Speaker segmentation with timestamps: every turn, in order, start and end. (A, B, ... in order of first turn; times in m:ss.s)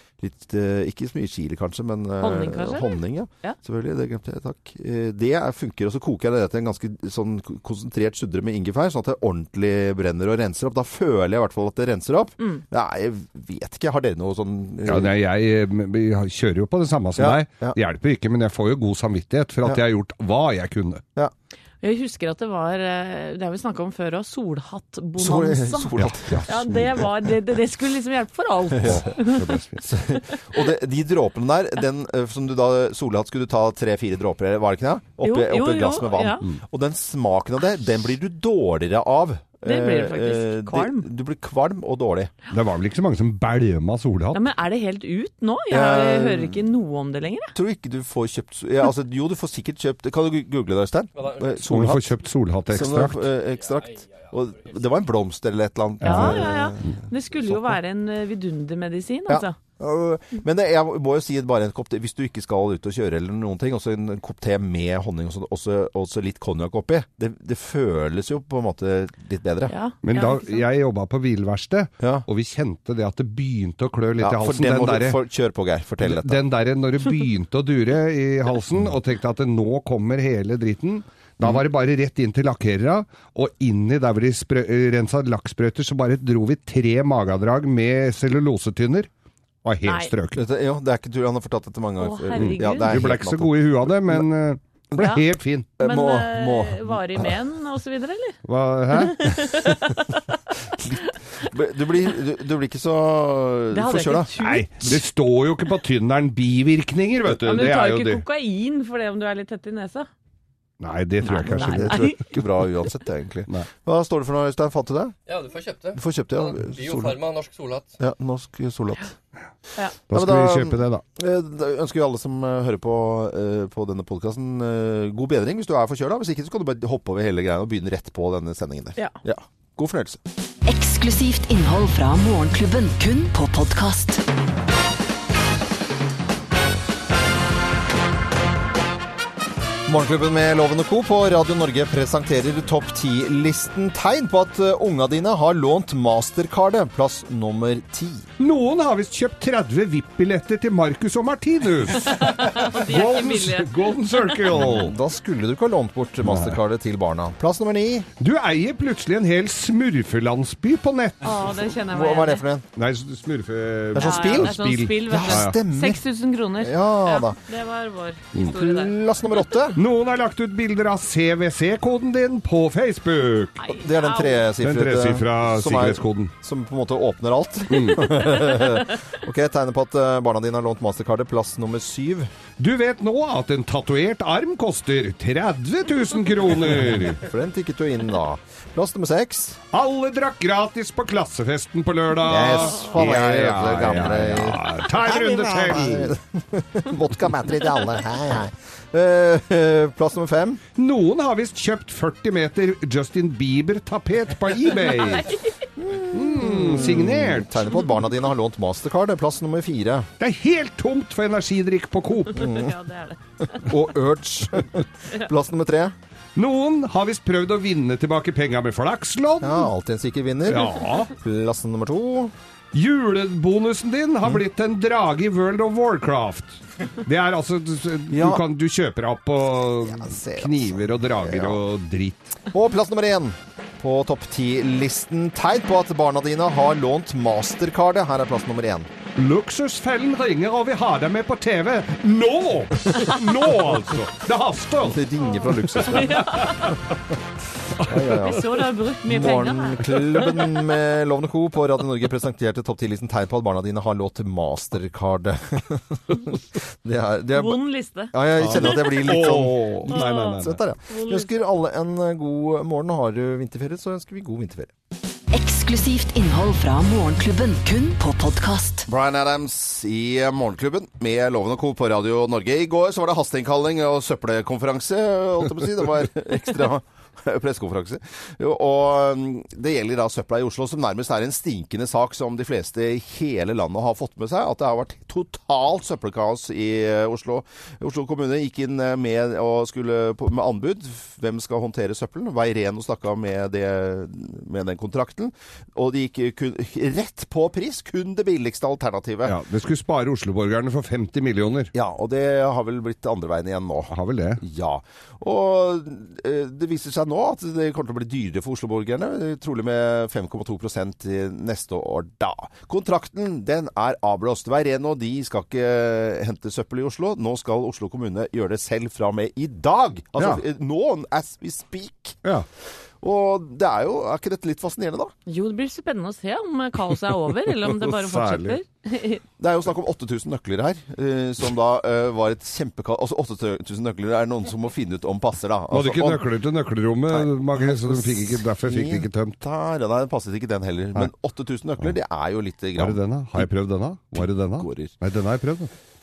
0:00.2-0:15.1 A
0:02.2-0:03.6 B
0:14.8-0:21.0 C
0:17.2-0:17.8 A
0:21.8-0:25.9 B
0:25.2-0:26.7 A
0:26.0-0:26.8 C
0:26.4-0:29.5 B
0:28.8-0:29.1 A
0:28.8-0:29.8 C
0:29.8-0:42.3 A
0:35.2-0:36.4 B
0:39.6-0:41.0 B
0:42.5-0:44.4 C
0:44.3-0:47.5 B
0:45.7-0:46.6 A
0:47.5-0:52.1 A
0:51.2-0:51.5 D
0:51.7-0:53.2 C
0:52.7-0:57.8 A
0:53.6-0:54.7 D
0:56.0-0:56.4 C
0:56.0-0:59.6 B
0:59.3-1:09.7 A
1:09.7-1:10.6 B
1:10.0-1:15.2 C
1:12.0-1:12.2 A
1:14.2-1:16.4 A
1:16.0-1:29.1 C
1:29.6-1:30.4 C
1:30.3-1:34.2 A
1:32.0-1:32.9 B
1:32.3-1:35.7 C
1:35.0-1:35.2 B
1:35.8-1:37.3 A
1:35.8-1:38.4 B
1:38.4-1:39.5 C
1:38.9-1:40.3 B
1:40.7-1:45.0 A
1:43.7-1:44.9 B
1:44.4-1:48.2 C
1:47.4-1:50.1 B
1:50.8-1:52.1 C
1:51.2-1:52.2 B
1:51.4-1:55.2 A
1:55.3-1:58.0 D
1:55.9-1:57.2 A
1:58.0-1:59.1 A
2:00.1-2:01.0 C
2:00.1-2:10.2 A
2:10.6-2:14.2 E
2:19.9-2:28.3 A
2:28.4-2:34.9 C
2:32.1-2:34.4 B
2:34.5-2:38.1 A
2:36.2-2:36.6 C
2:38.2-2:41.2 C
2:41.2-2:42.4 B
2:41.6-2:42.6 A
2:42.8-2:45.5 C
2:43.9-2:44.5 A
2:44.0-2:49.0 B
2:45.1-2:46.0 A
2:46.6-2:47.4 A
2:48.4-2:49.8 A
2:49.8-2:53.6 C
2:53.6-2:54.4 B
2:53.7-3:02.3 A
2:54.6-2:56.3 C
2:57.7-2:58.2 C
3:02.6-3:07.2 C
3:07.0-3:09.6 A
3:09.7-3:16.2 C
3:12.2-3:20.6 A
3:20.8-3:25.2 C
3:24.7-3:25.6 B
3:25.8-3:30.1 A
3:26.1-3:27.7 C
3:30.2-3:32.5 C
3:32.3-3:32.7 A
3:32.3-3:33.7 B
3:33.5-3:35.9 A
3:36.4-3:39.7 C
3:39.4-3:42.3 A
3:40.5-3:41.1 C
3:42.7-3:52.4 C
3:48.1-3:48.4 A
3:49.8-3:51.6 A
3:52.5-3:58.9 A
3:59.2-4:06.8 C
4:04.8-4:06.2 A
4:05.9-4:06.7 B
4:07.7-4:08.2 C
4:07.9-4:17.6 A
4:08.1-4:09.9 B
4:17.3-4:18.1 B
4:18.1-4:24.7 A
4:18.4-4:20.6 C
4:19.9-4:21.3 B
4:25.3-4:28.9 E
4:28.9-4:59.4 A
4:59.2-5:01.7 C
5:01.7-5:22.2 A
5:03.9-5:04.4 C
5:23.0-5:25.1 A
5:25.3-5:29.2 B
5:27.6-5:28.6 C
5:29.4-5:36.2 A
5:35.7-5:39.4 C
5:37.1-5:43.5 A
5:42.8-5:45.7 C
5:44.1-5:44.9 A